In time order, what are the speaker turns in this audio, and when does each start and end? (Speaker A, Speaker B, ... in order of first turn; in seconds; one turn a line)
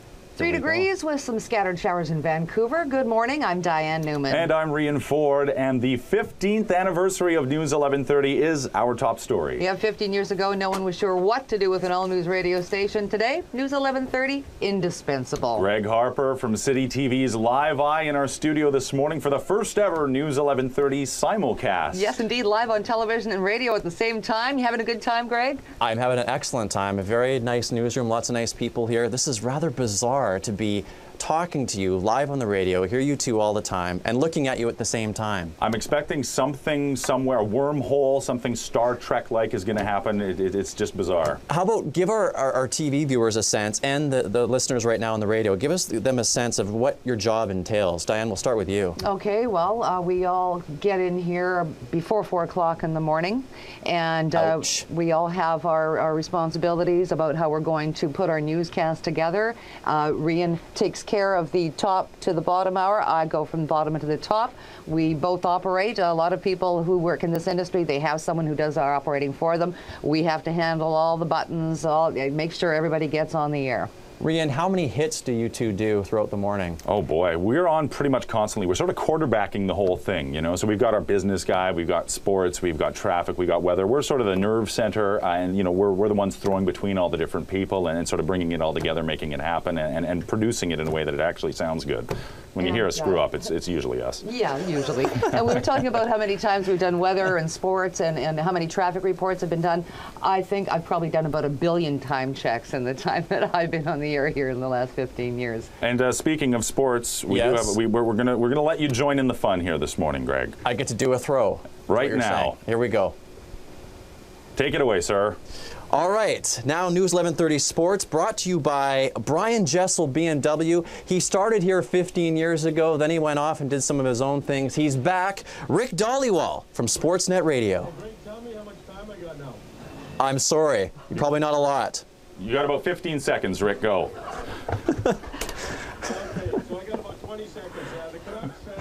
Speaker A: 0.4-4.5
Speaker B: 0.4-0.9
Speaker C: 4.3-9.6
Speaker A: 9.6-15.7
Speaker C: 15.6-22.1
Speaker A: 21.9-25.6
Speaker B: 25.8-35.5
Speaker C: 35.6-41.4
Speaker B: 41.5-49.0
Speaker A: 49.0-73.9
Speaker B: 54.3-54.9
Speaker B: 74.2-76.8
Speaker C: 76.9-94.2
Speaker A: 92.6-93.2
Speaker A: 94.2-105.7
Speaker C: 105.8-110.6
Speaker B: 107.3-107.8
Speaker B: 110.6-113.2
Speaker C: 111.9-112.6
Speaker C: 114.6-115.4
Speaker B: 115.9-127.9
Speaker D: 128.2-129.6
Speaker B: 130.2-132.0
Speaker C: 132.4-134.1
Speaker D: 136.8-138.5